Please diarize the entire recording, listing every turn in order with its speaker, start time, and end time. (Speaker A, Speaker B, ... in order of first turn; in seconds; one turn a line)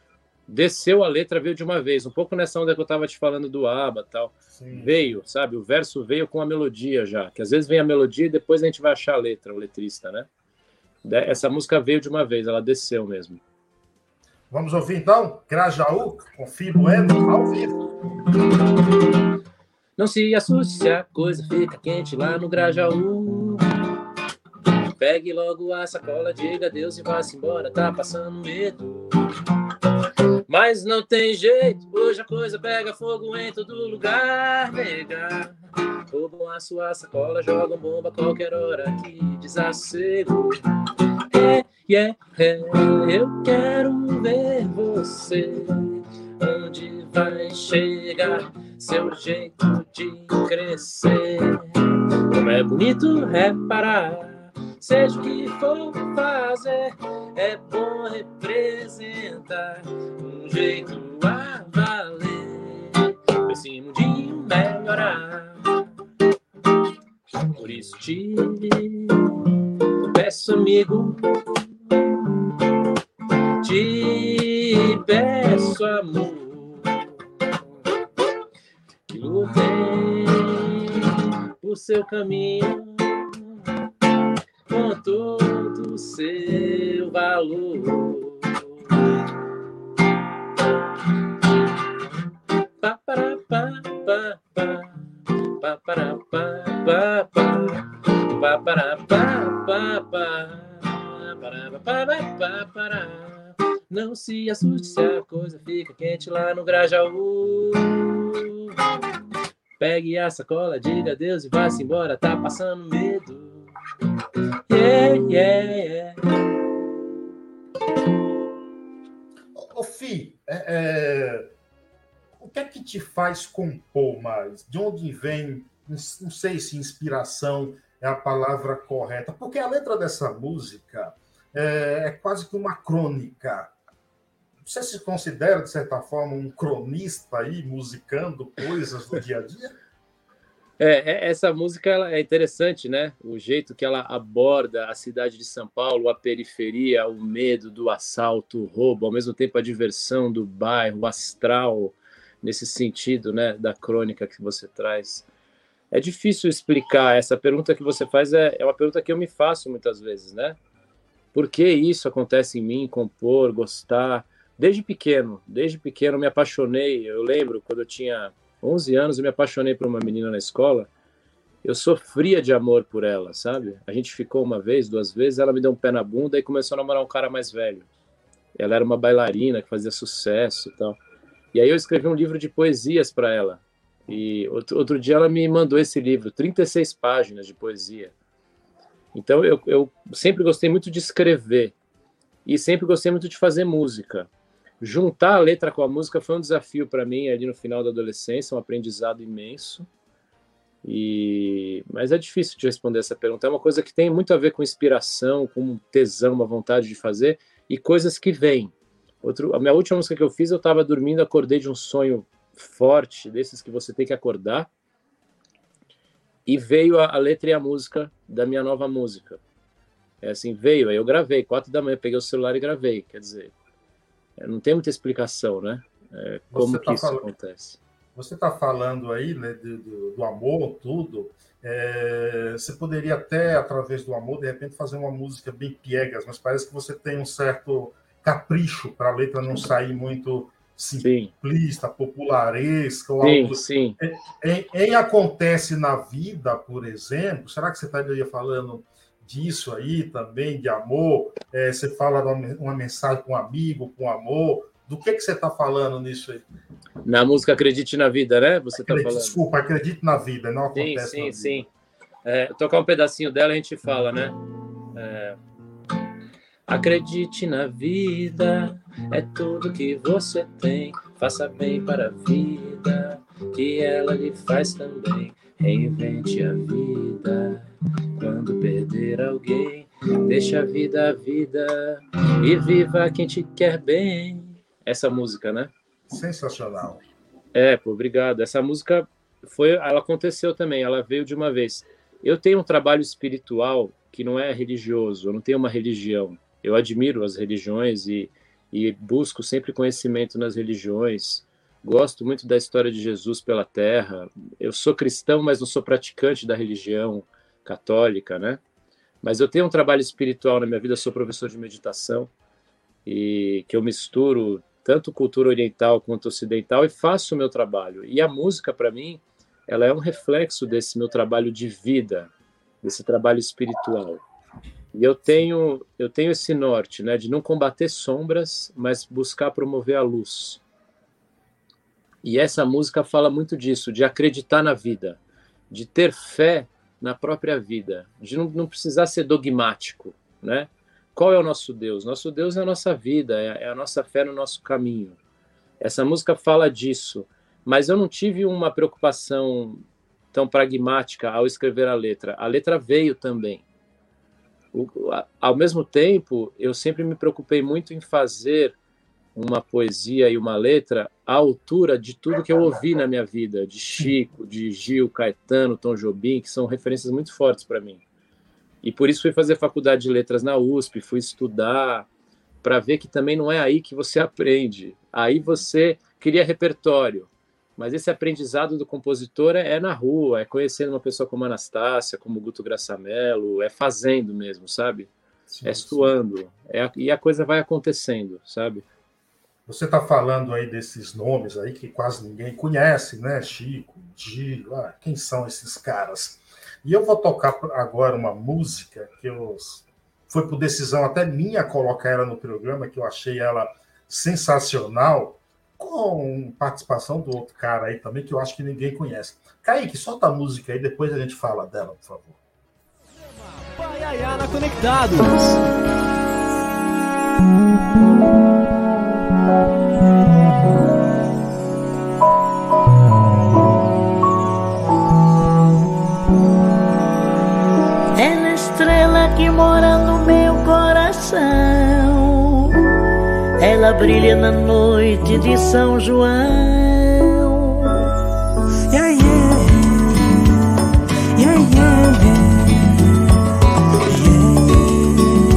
Speaker A: 0.5-10.3
Speaker B: 4.5-5.2
Speaker A: 11.0-13.4
Speaker B: 14.5-17.8
Speaker A: 20.0-23.7
Speaker A: 25.0-29.1
Speaker A: 30.5-35.5
Speaker A: 36.1-40.6
Speaker A: 41.3-51.7
Speaker A: 52.3-65.6
Speaker A: 67.5-69.4
Speaker A: 70.1-71.6
Speaker A: 73.6-77.0
Speaker A: 79.1-83.6
Speaker A: 84.7-88.9
Speaker A: 92.8-94.9
Speaker A: 95.5-108.7
Speaker A: 109.8-113.7
Speaker A: 114.7-116.2
Speaker B: 119.5-121.5
Speaker B: 122.4-133.7
Speaker B: 134.6-139.7
Speaker A: 140.8-155.2
Speaker A: 155.9-160.6
Speaker A: 161.3-170.9
Speaker A: 171.6-177.9
Speaker A: 178.6-181.0
Speaker A: 181.5-188.1
Speaker A: 189.1-191.7
Speaker A: 192.4-194.3
Speaker A: 194.8-199.9
Speaker A: 200.8-214.7
Speaker A: 216.4-219.4
Speaker A: 220.2-223.5
Speaker A: 224.4-227.8
Speaker B: 226.5-227.3
Speaker B: 228.1-256.4
Speaker A: 241.0-241.3
Speaker A: 243.2-244.0
Speaker A: 257.0-259.4
Speaker B: 258.7-261.6
Speaker A: 260.7-261.7
Speaker A: 262.2-264.4
Speaker A: 264.9-265.4
Speaker A: 266.7-277.6
Speaker A: 278.2-285.7
Speaker B: 286.1-287.0
Speaker A: 287.5-308.6
Speaker A: 309.2-312.3
Speaker A: 313.1-322.3
Speaker A: 322.8-324.2
Speaker A: 324.9-330.6
Speaker A: 332.2-345.2
Speaker A: 345.8-353.6
Speaker A: 354.7-358.8
Speaker A: 359.3-368.0
Speaker A: 368.8-372.1
Speaker A: 372.6-385.1
Speaker B: 385.5-386.1
Speaker A: 385.6-388.8
Speaker B: 389.7-412.4
Speaker C: 413.2-415.6
Speaker D: 430.2-431.4
Speaker D: 433.6-437.1
Speaker D: 438.9-440.1
Speaker D: 441.3-442.9
Speaker D: 444.0-445.2